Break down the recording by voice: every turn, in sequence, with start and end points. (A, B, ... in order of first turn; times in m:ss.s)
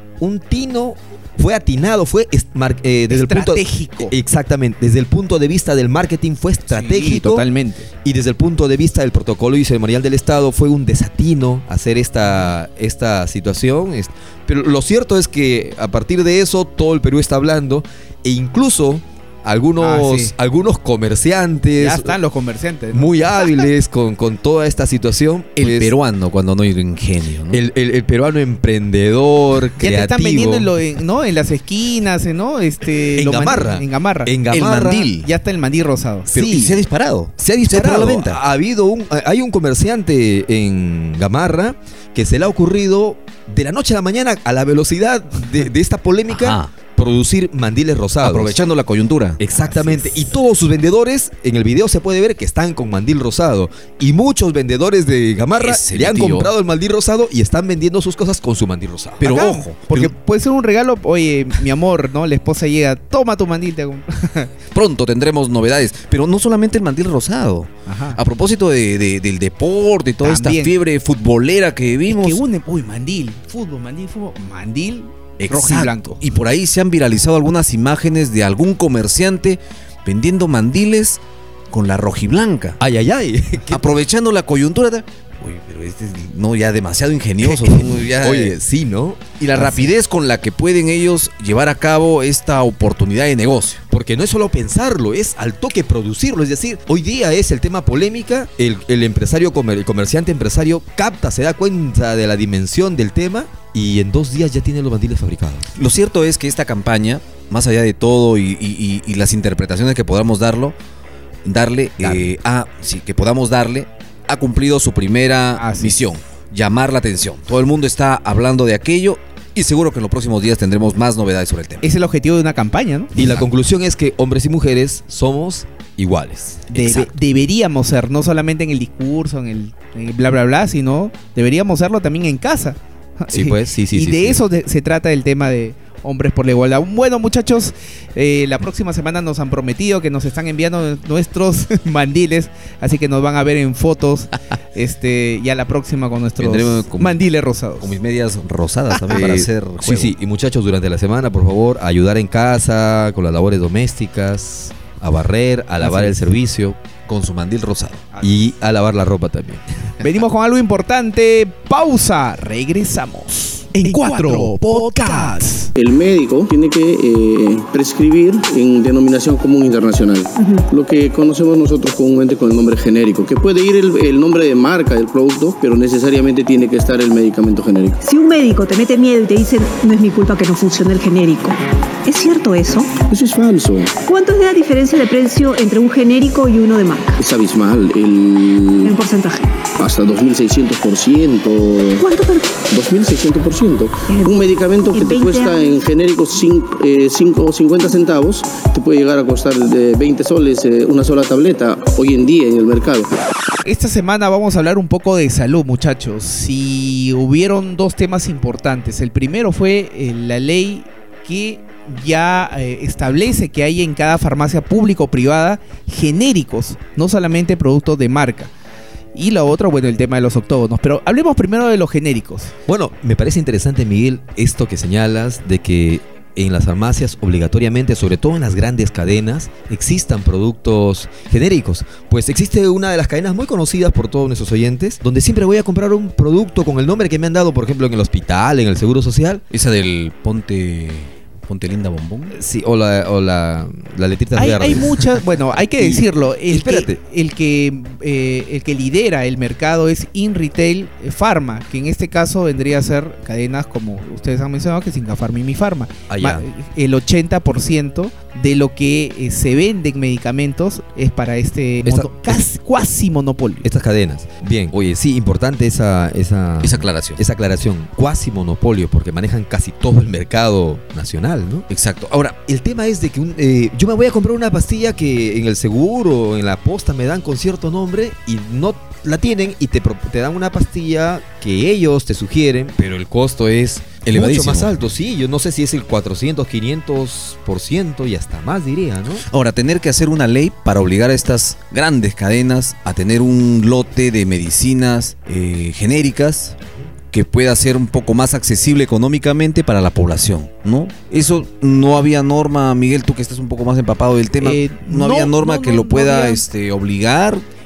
0:00.2-0:07.4 A
0:03.1-0:04.1 B
0:06.7-0:07.9 B
0:08.0-0:22.2 A
0:19.8-0:20.3 B
0:21.8-0:23.5 B
0:22.9-0:25.9 A
0:25.6-0:27.6 C
0:27.5-0:30.7 A
0:29.8-0:34.3 B
0:33.1-0:35.1 A
0:34.5-0:35.3 C
0:35.2-0:36.4 B
0:36.3-0:36.8 A
0:36.3-0:38.4 C
0:37.4-0:48.6 A
0:46.3-0:46.7 C
0:48.2-0:49.4 C
0:49.4-0:59.4 A
0:55.6-0:56.5 C
0:59.2-1:00.1 C
0:59.2-1:04.5 B
1:04.7-1:12.4 C
1:07.8-1:08.2 B
1:10.2-1:10.7 B
1:12.1-1:16.2 B
1:15.4-1:22.8 C
1:22.8-1:23.9 A
1:23.7-1:28.6 C
1:27.4-1:29.9 A
1:29.4-1:33.8 C
1:33.9-1:45.7 A
1:45.7-1:50.8 C
1:51.4-2:01.9 C
1:52.0-1:52.3 A
1:55.6-1:56.0 B
2:01.8-2:03.2 B
2:03.2-2:07.1 A
2:06.7-2:27.9 B
2:13.3-2:14.4 A
2:26.4-2:27.2 C
2:27.8-2:30.1 C
2:29.1-2:36.8 A
2:35.8-2:36.1 B
2:37.1-2:38.1 C
2:38.2-2:39.6 A
2:40.0-2:45.7 B
2:44.0-2:44.6 A
2:45.8-2:58.0 D
2:58.0-3:02.9 E
3:03.1-3:03.9 D
3:04.0-3:07.2 E
3:07.2-3:09.0 D
3:08.8-3:09.5 E
3:09.8-3:12.1 D
3:12.0-3:12.6 E
3:12.7-3:23.1 D
3:14.1-3:14.4 E
3:14.9-3:15.8 E
3:23.6-3:38.5 B
3:39.1-3:42.5 B
3:42.7-3:59.4 A
3:59.5-4:02.4 C
4:02.3-4:07.0 A
4:04.4-4:23.6 B
4:16.1-4:16.4 A
4:21.8-4:22.4 A
4:23.6-4:31.6 A
4:26.6-4:27.2 C
4:31.7-4:32.4 C
4:32.5-4:49.2 A
4:44.0-4:44.8 C
4:49.2-4:56.6 C
4:57.1-5:07.4 C
5:04.4-5:06.4 B